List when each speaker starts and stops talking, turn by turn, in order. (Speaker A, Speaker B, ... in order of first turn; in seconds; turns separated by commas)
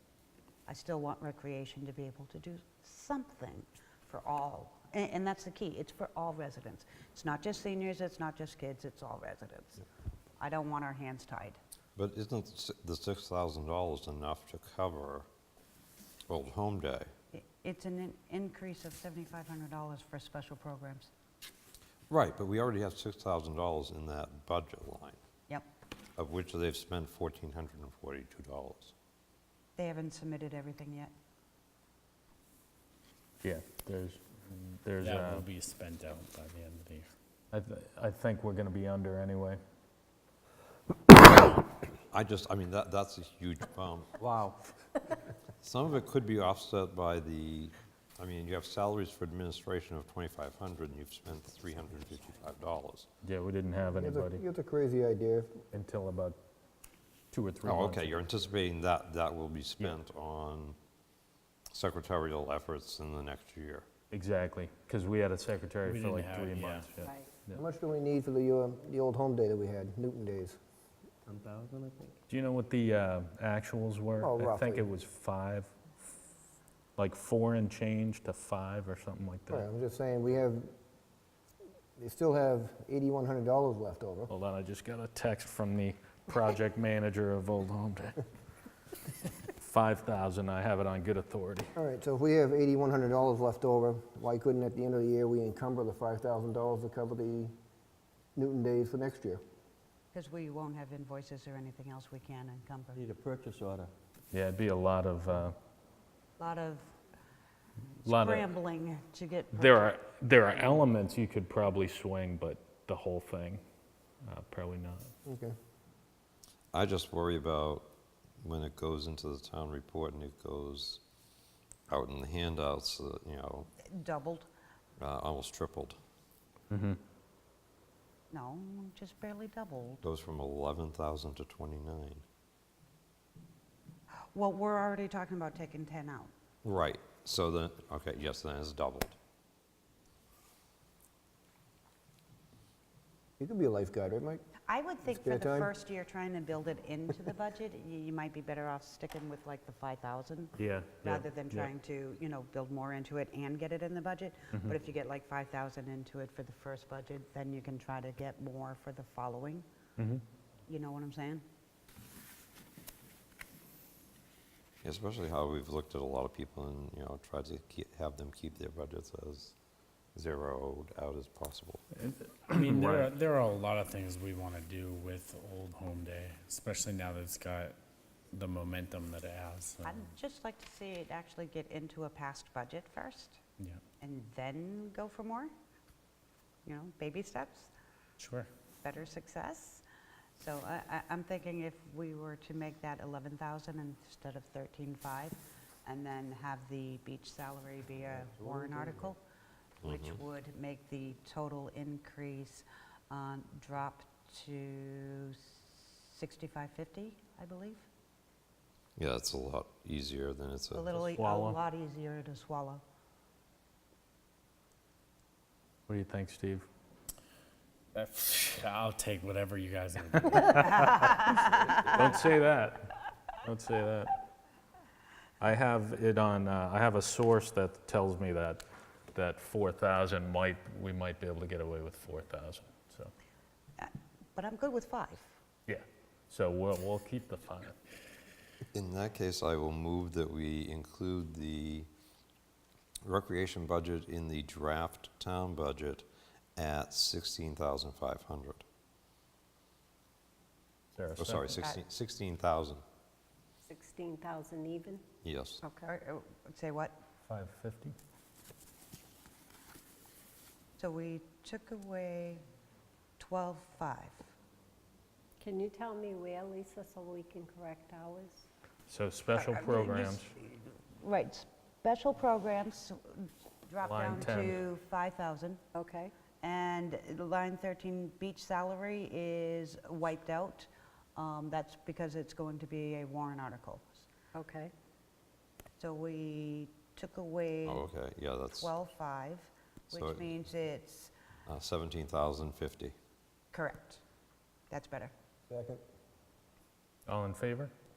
Speaker A: 0.7-9.8, Speaker A: 10.4-11.6, Speaker B: 11.9-15.3, Speaker B: 16.3-17.1, Speaker A: 17.3-21.1, Speaker B: 22.1-25.2, Speaker B: 26.1-28.9, Speaker A: 29.8-31.1, Speaker C: 33.4-35.5, Speaker D: 35.0-37.1, Speaker C: 37.5-39.6, Speaker B: 42.1-44.1, Speaker E: 44.2-44.6, Speaker B: 45.6-53.1, Speaker C: 53.2-54.4, Speaker F: 53.9-55.6, Speaker C: 55.7-56.4, Speaker C: 57.3-58.2, Speaker B: 57.6-60.8, Speaker B: 61.7-63.9, Speaker C: 64.1-67.6, Speaker D: 65.8-66.9, Speaker F: 67.5-70.6, Speaker E: 71.3-72.2, Speaker C: 72.3-75.9, Speaker F: 74.2-74.9, Speaker C: 77.0-79.7, Speaker F: 79.5-80.7, Speaker F: 82.0-84.3, Speaker C: 84.3-88.2, Speaker C: 89.6-91.7, Speaker F: 91.8-97.5, Speaker F: 98.3-99.4, Speaker A: 100.1-103.0, Speaker E: 103.0-103.9, Speaker C: 104.3-105.5, Speaker A: 106.4-106.9, Speaker A: 108.0-109.9, Speaker C: 108.0-108.5, Speaker C: 109.5-113.6, Speaker C: 114.2-115.1, Speaker F: 115.2-115.5, Speaker B: 116.7-117.9, Speaker B: 118.4-121.0, Speaker B: 121.9-123.7, Speaker A: 123.8-124.5, Speaker B: 125.0-126.0, Speaker C: 126.7-127.0, Speaker A: 128.3-130.0, Speaker B: 130.0-132.2, Speaker A: 134.3-136.3, Speaker B: 136.6-139.2, Speaker F: 143.4-144.4, Speaker A: 144.7-159.7, Speaker F: 145.1-145.7, Speaker C: 150.6-151.7, Speaker C: 160.0-160.2, Speaker A: 160.7-161.4, Speaker B: 164.8-169.5, Speaker B: 170.1-171.8, Speaker C: 172.0-173.1, Speaker D: 172.5-177.8, Speaker D: 178.3-180.0, Speaker A: 179.8-183.4, Speaker A: 184.0-185.5, Speaker A: 186.6-187.7, Speaker D: 188.2-188.5, Speaker A: 188.8-189.8, Speaker A: 190.4-199.2, Speaker E: 198.2-199.1, Speaker B: 199.8-200.2, Speaker A: 199.8-207.9, Speaker B: 209.0-210.9, Speaker A: 210.7-212.8, Speaker C: 210.9-211.6, Speaker C: 215.9-216.7, Speaker D: 217.9-220.8, Speaker C: 220.4-224.2, Speaker C: 225.4-233.1, Speaker A: 233.8-235.4, Speaker C: 235.7-237.7, Speaker B: 238.7-241.9, Speaker B: 243.0-248.6, Speaker C: 250.9-251.6, Speaker B: 251.2-252.8, Speaker G: 253.6-255.0, Speaker B: 255.2-255.6, Speaker G: 255.6-255.9, Speaker A: 255.8-256.9, Speaker C: 257.3-257.9, Speaker A: 260.8-262.4, Speaker A: 263.2-264.3, Speaker G: 265.4-268.4, Speaker C: 268.9-270.3, Speaker A: 269.3-275.6, Speaker C: 273.8-274.7, Speaker G: 275.7-276.1, Speaker A: 276.4-284.1, Speaker G: 284.3-284.7, Speaker A: 285.8-287.9, Speaker B: 287.6-288.7, Speaker A: 288.5-291.1, Speaker B: 289.9-290.3, Speaker B: 291.5-292.9, Speaker A: 293.5-294.0, Speaker A: 294.7-295.1, Speaker F: 295.5-295.8, Speaker C: 297.1-297.7